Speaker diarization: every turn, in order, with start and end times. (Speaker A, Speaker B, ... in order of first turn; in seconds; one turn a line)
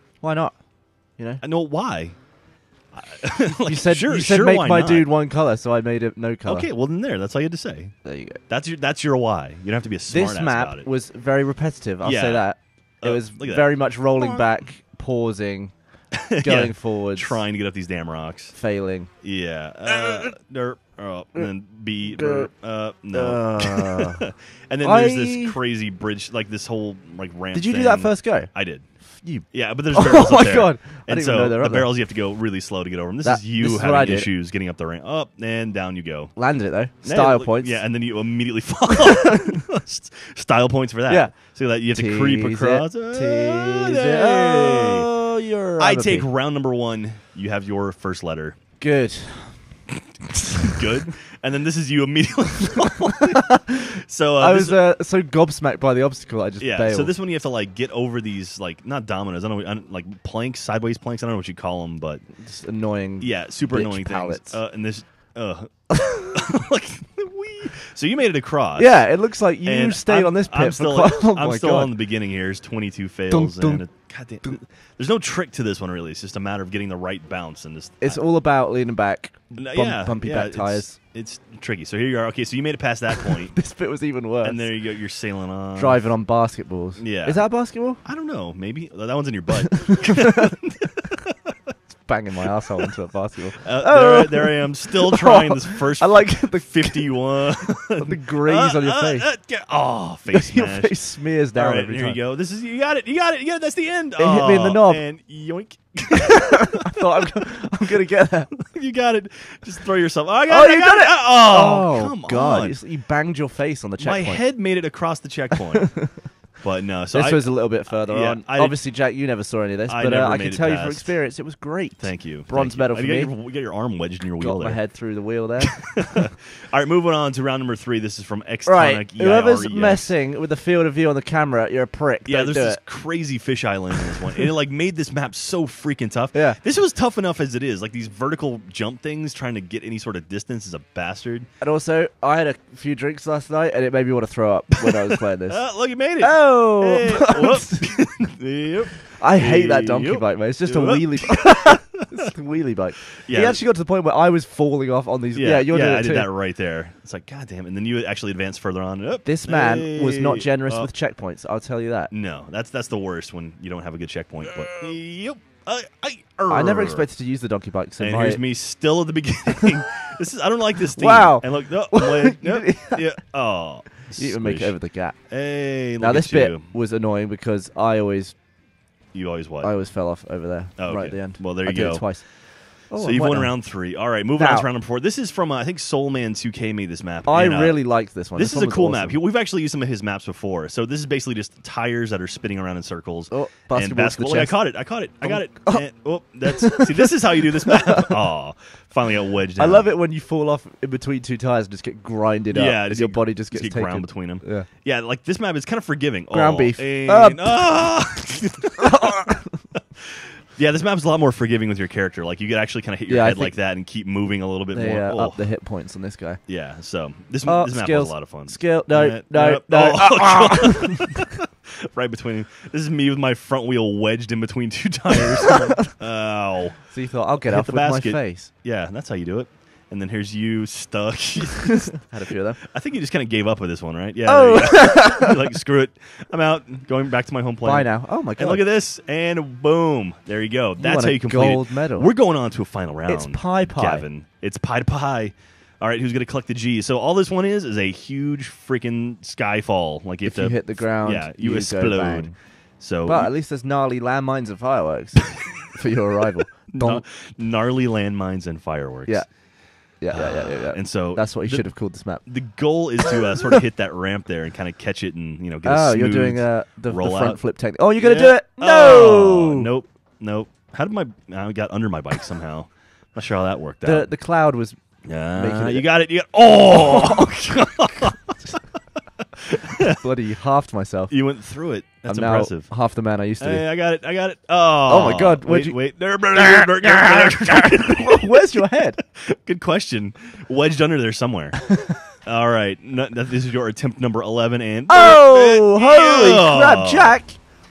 Speaker A: 0.2-0.6
Speaker A: 1.2-1.4
Speaker B: 1.4-2.2
Speaker B: 2.9-5.1
Speaker A: 3.7-6.7
Speaker B: 6.5-7.9
Speaker A: 8.1-8.4
Speaker B: 8.5-10.9
Speaker A: 10.1-15.7
Speaker B: 12.0-14.5
Speaker A: 16.4-17.5
Speaker B: 16.4-18.6
Speaker A: 18.6-19.1
Speaker B: 19.2-28.9
Speaker A: 19.9-20.3
Speaker A: 22.0-22.5
Speaker A: 23.1-24.2
Speaker A: 24.8-25.6
Speaker A: 27.5-28.5
Speaker A: 29.2-31.9
Speaker B: 29.5-36.4
Speaker A: 33.2-34.3
Speaker A: 36.4-37.9
Speaker B: 37.0-45.1
Speaker A: 38.9-39.5
Speaker A: 41.1-41.4
Speaker A: 41.9-46.3
Speaker B: 45.8-48.6
Speaker A: 48.8-49.6
Speaker B: 50.7-54.8
Speaker A: 53.3-57.1
Speaker B: 56.6-62.2
Speaker A: 62.5-64.6
Speaker B: 63.2-69.1
Speaker A: 66.0-66.3
Speaker A: 68.8-72.0
Speaker B: 69.6-78.2
Speaker A: 73.3-73.9
Speaker A: 78.0-81.0
Speaker B: 79.5-83.6
Speaker A: 83.2-84.8
Speaker B: 84.4-86.1
Speaker A: 85.8-88.0
Speaker B: 87.0-91.2
Speaker A: 89.6-90.5
Speaker A: 92.1-99.3
Speaker B: 93.6-107.0
Speaker A: 100.3-102.2
Speaker A: 104.2-105.0
Speaker A: 106.3-108.5
Speaker B: 108.6-112.8
Speaker A: 110.5-114.4
Speaker B: 114.0-118.8
Speaker A: 115.7-116.1
Speaker A: 117.1-123.3
Speaker B: 119.9-121.2
Speaker B: 122.0-125.0
Speaker A: 124.4-126.3
Speaker B: 125.6-130.1
Speaker A: 128.7-132.8
Speaker B: 132.3-141.5
Speaker A: 134.1-134.4
Speaker A: 136.3-136.6
Speaker A: 141.6-147.9
Speaker B: 145.5-151.8
Speaker A: 149.2-156.3
Speaker B: 153.2-153.6
Speaker B: 155.3-160.9
Speaker A: 159.2-162.1
Speaker B: 162.1-167.1
Speaker A: 166.5-168.4
Speaker B: 168.0-176.7
Speaker A: 170.9-173.1
Speaker A: 174.2-175.4
Speaker A: 176.0-178.4
Speaker B: 179.1-179.8
Speaker A: 179.6-184.7
Speaker B: 180.8-199.9
Speaker A: 187.3-189.2
Speaker A: 193.3-195.9
Speaker A: 196.4-198.2
Speaker A: 199.6-204.7
Speaker B: 202.5-209.4
Speaker A: 206.3-208.2
Speaker A: 208.8-209.6
Speaker B: 210.6-215.5
Speaker A: 213.1-213.6
Speaker A: 214.7-216.4
Speaker B: 216.5-253.3
Speaker A: 217.4-221.2
Speaker A: 226.9-228.5
Speaker A: 231.9-232.6
Speaker A: 234.3-235.4
Speaker A: 237.6-238.6
Speaker A: 240.8-242.2
Speaker A: 243.1-244.1
Speaker A: 250.2-252.4
Speaker A: 253.0-257.0
Speaker B: 256.7-259.2
Speaker A: 259.1-262.2
Speaker B: 260.1-267.4
Speaker A: 265.6-269.7
Speaker B: 268.0-274.1
Speaker A: 273.8-275.9
Speaker B: 275.1-278.6
Speaker A: 276.7-277.4
Speaker B: 279.7-280.0
Speaker A: 279.8-281.1
Speaker B: 281.1-282.7
Speaker A: 282.1-283.7
Speaker B: 283.4-288.6
Speaker A: 284.9-289.0
Speaker B: 289.2-291.7
Speaker A: 291.7-292.0
Speaker B: 292.2-297.2
Speaker A: 294.9-297.4